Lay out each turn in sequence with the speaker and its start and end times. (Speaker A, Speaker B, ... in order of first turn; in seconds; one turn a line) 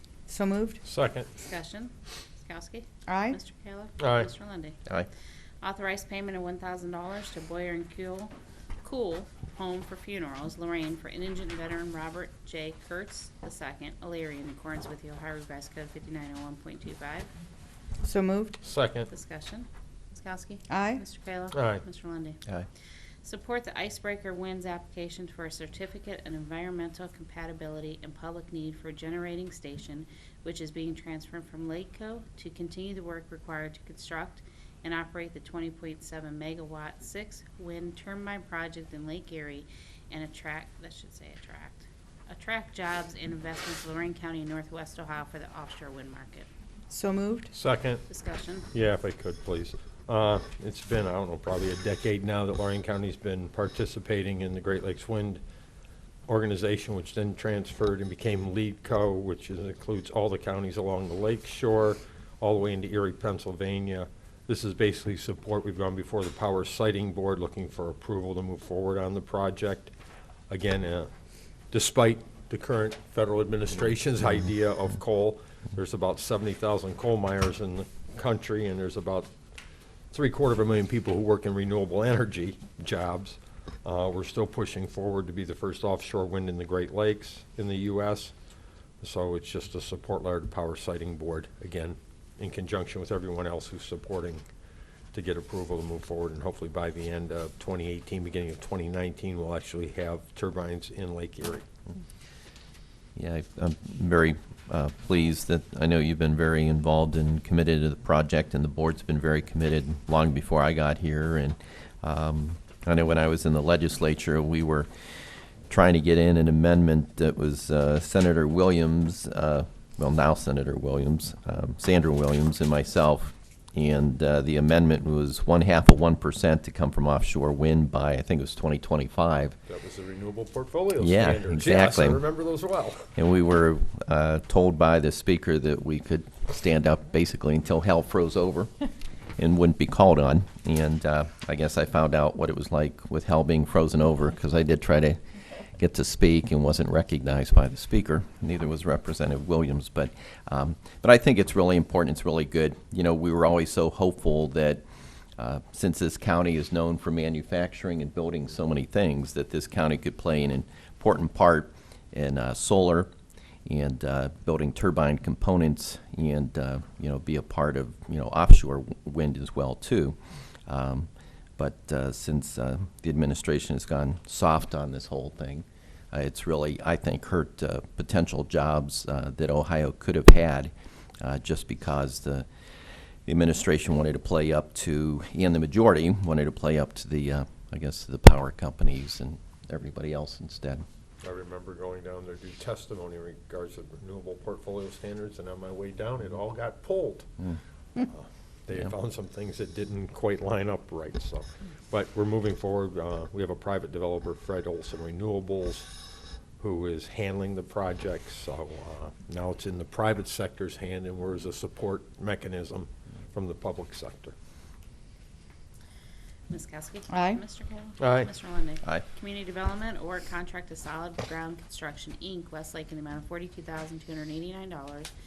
Speaker A: 0.3-0.8
Speaker B: 0.8-1.3
Speaker C: 1.3-4.8
Speaker A: 3.1-3.4
Speaker B: 4.0-4.3
Speaker C: 5.6-8.3
Speaker C: 8.8-17.3
Speaker A: 18.0-18.6
Speaker B: 18.6-19.1
Speaker C: 19.1-22.4
Speaker A: 20.7-21.0
Speaker B: 21.5-21.8
Speaker C: 23.2-46.5
Speaker A: 46.9-47.5
Speaker B: 47.5-48.0
Speaker C: 48.1-48.7
Speaker B: 48.7-55.4
Speaker B: 56.3-69.9
Speaker B: 70.5-71.1
Speaker B: 71.7-79.3
Speaker B: 80.1-88.3
Speaker B: 89.0-94.4
Speaker B: 95.1-101.7
Speaker D: 103.2-114.9
Speaker D: 115.7-129.6
Speaker B: 129.7-133.1
Speaker D: 131.0-132.2
Speaker D: 133.2-138.7
Speaker D: 139.4-145.2
Speaker D: 145.8-154.8
Speaker D: 155.4-163.1
Speaker D: 163.7-170.2
Speaker D: 170.7-182.5
Speaker D: 183.3-190.8
Speaker B: 191.2-197.3
Speaker B: 198.0-205.9
Speaker B: 206.6-214.3
Speaker C: 216.5-225.1
Speaker A: 217.1-217.4
Speaker B: 218.0-218.3